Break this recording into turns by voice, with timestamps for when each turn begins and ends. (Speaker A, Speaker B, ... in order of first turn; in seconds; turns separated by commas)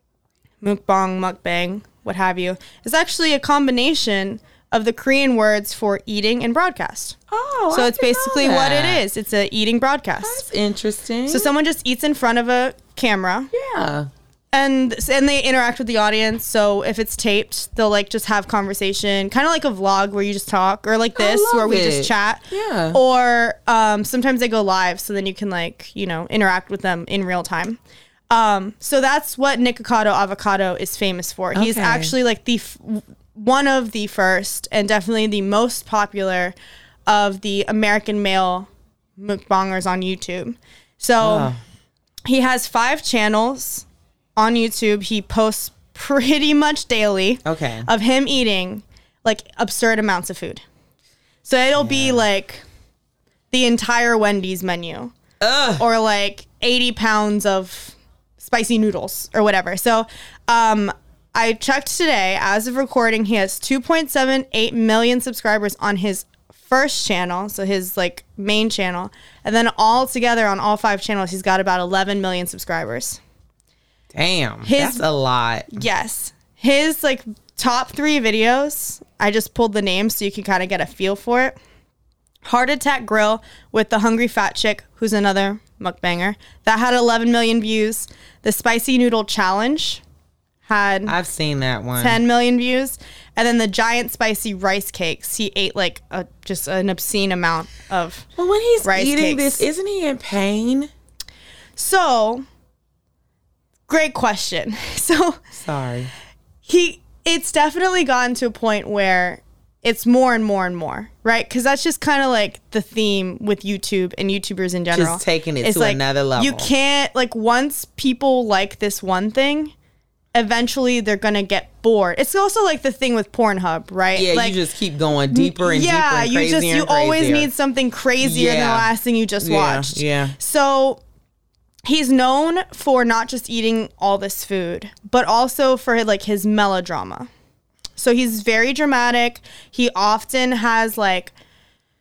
Speaker A: 0.6-7.2, Speaker B: 7.3-9.0, Speaker A: 7.7-10.4, Speaker B: 10.2-11.5, Speaker A: 11.3-13.5, Speaker B: 13.5-14.1, Speaker A: 14.5-27.8, Speaker B: 21.1-23.0, Speaker A: 28.3-36.5, Speaker B: 31.5-32.1, Speaker A: 37.1-41.5, Speaker B: 41.2-41.6, Speaker A: 42.3-43.9, Speaker A: 44.4-50.6, Speaker B: 47.4-47.9, Speaker A: 51.4-52.6, Speaker B: 51.8-52.2, Speaker A: 53.5-55.1, Speaker B: 55.4-55.8, Speaker A: 55.8-73.2, Speaker B: 74.1-75.7, Speaker A: 74.6-75.0, Speaker A: 75.7-81.5, Speaker A: 82.4-90.0, Speaker A: 90.6-91.2, Speaker B: 91.0-92.2, Speaker A: 92.0-98.2, Speaker B: 98.4-100.9, Speaker A: 98.8-99.6, Speaker A: 101.8-102.4, Speaker A: 103.9-105.4, Speaker B: 105.5-106.1, Speaker A: 106.6-119.7, Speaker B: 114.9-116.7, Speaker A: 120.3-124.6, Speaker B: 124.1-127.5, Speaker A: 125.3-131.0, Speaker B: 128.2-130.3, Speaker A: 131.8-137.3, Speaker A: 138.0-141.3